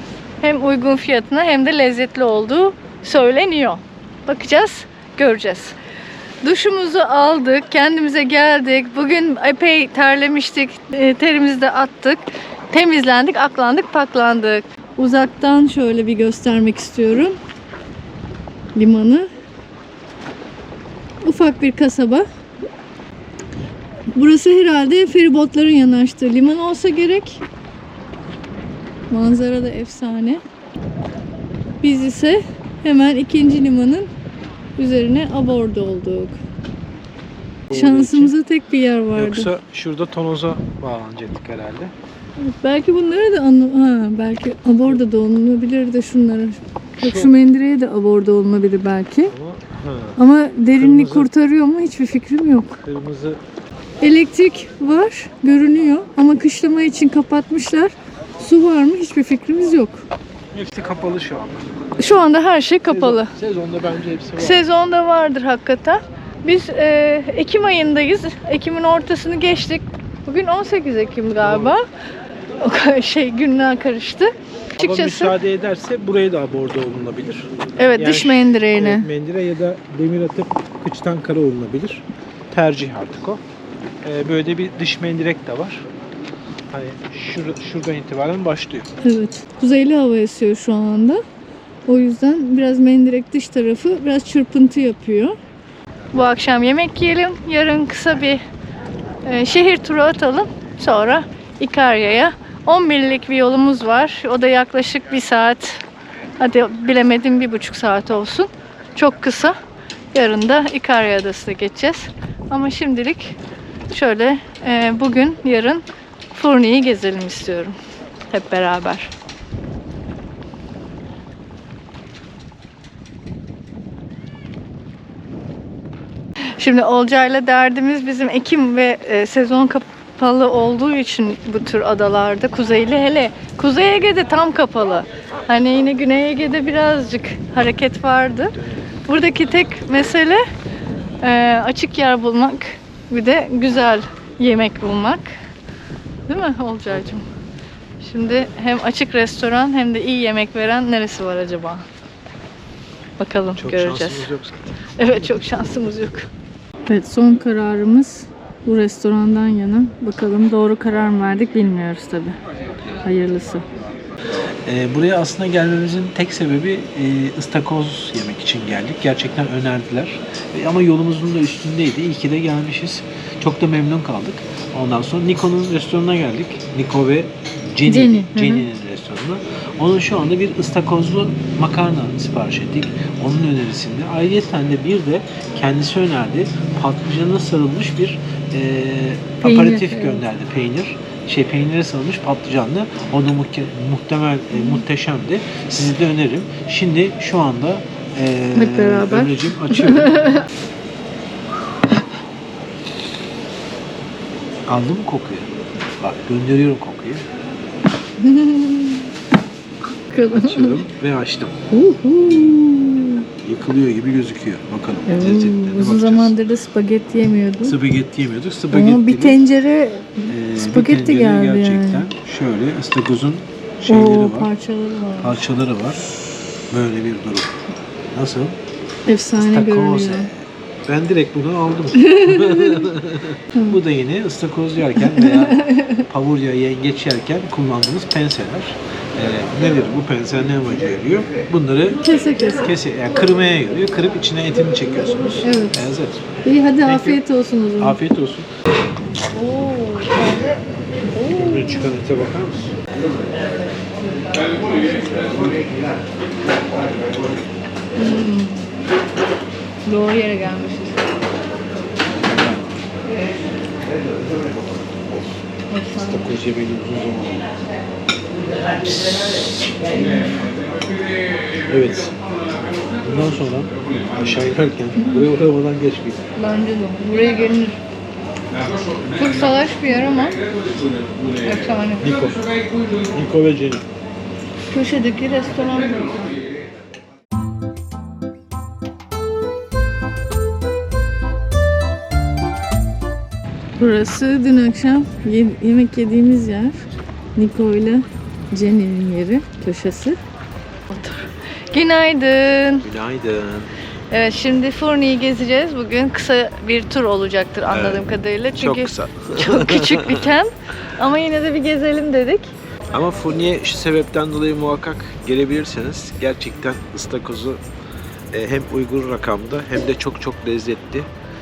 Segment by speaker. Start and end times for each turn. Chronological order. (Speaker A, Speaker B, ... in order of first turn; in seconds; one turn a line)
Speaker A: 0.4-5.7
Speaker A: 6.4-17.4
Speaker A: 18.7-19.3
Speaker A: 21.2-22.3
Speaker A: 24.1-27.4
Speaker A: 29.1-30.4
Speaker A: 31.8-34.1
Speaker A: 34.8-36.4
Speaker B: 37.7-38.3
Speaker A: 37.7-39.5
Speaker B: 39.1-41.9
Speaker A: 42.4-49.3
Speaker B: 47.0-47.3
Speaker B: 49.3-50.2
Speaker A: 50.2-52.8
Speaker B: 50.8-51.3
Speaker B: 52.8-53.4
Speaker A: 54.0-60.0
Speaker B: 60.5-61.7
Speaker A: 62.0-63.3
Speaker B: 62.9-64.6
Speaker A: 64.4-71.8
Speaker B: 71.4-71.7
Speaker A: 72.6-75.3
Speaker B: 74.8-83.4
Speaker A: 77.8-79.1
Speaker B: 84.0-85.8
Speaker B: 86.7-88.9
Speaker A: 89.0-91.2
Speaker A: 91.8-95.3
Speaker A: 96.1-98.4
Speaker A: 99.2-105.8
Speaker A: 106.4-109.5
Speaker A: 110.1-113.4
Speaker A: 113.9-117.7
Speaker A: 118.3-119.1
Speaker A: 126.6-140.4
Speaker A: 141.2-145.3
Speaker A: 146.3-147.2
Speaker A: 148.0-151.8
Speaker A: 153.2-154.3
Speaker B: 153.5-155.5
Speaker A: 155.0-156.3
Speaker A: 156.9-162.4
Speaker A: 163.0-163.6
Speaker B: 164.7-200.3
Speaker A: 177.9-178.7
Speaker A: 189.4-190.2
Speaker A: 198.5-200.4
Speaker B: 204.7-207.2
Speaker A: 208.2-209.1
Speaker A: 210.1-210.8
Speaker B: 210.3-211.6
Speaker A: 211.7-213.2
Speaker B: 213.4-216.3
Speaker A: 215.1-217.8
Speaker B: 217.6-219.4
Speaker A: 218.7-222.1
Speaker B: 220.3-224.5
Speaker A: 223.9-225.4
Speaker B: 225.2-226.0
Speaker B: 226.7-227.6
Speaker B: 228.1-228.6
Speaker A: 229.1-230.3
Speaker B: 229.3-242.0
Speaker A: 231.9-232.9
Speaker A: 233.5-233.8
Speaker A: 235.1-236.0
Speaker A: 242.0-242.7
Speaker B: 242.6-246.2
Speaker A: 245.4-245.7
Speaker A: 246.4-248.0
Speaker B: 246.8-247.2
Speaker B: 247.8-248.5
Speaker A: 249.3-251.9
Speaker B: 251.3-252.7
Speaker A: 254.5-255.4
Speaker A: 258.0-258.6
Speaker A: 259.9-261.2
Speaker B: 262.1-262.7
Speaker A: 265.7-266.3
Speaker B: 266.1-267.5
Speaker A: 269.9-270.5
Speaker B: 271.7-272.1
Speaker B: 273.0-276.2
Speaker A: 276.4-277.8
Speaker A: 279.1-280.4
Speaker A: 281.4-282.0
Speaker B: 282.0-282.5
Speaker B: 283.0-283.8
Speaker A: 284.7-286.4
Speaker A: 293.8-296.8
Speaker A: 297.4-300.2
Speaker A: 300.9-302.9
Speaker B: 302.8-303.7
Speaker A: 304.1-312.5
Speaker B: 307.7-310.3
Speaker B: 312.9-317.6
Speaker B: 318.3-321.1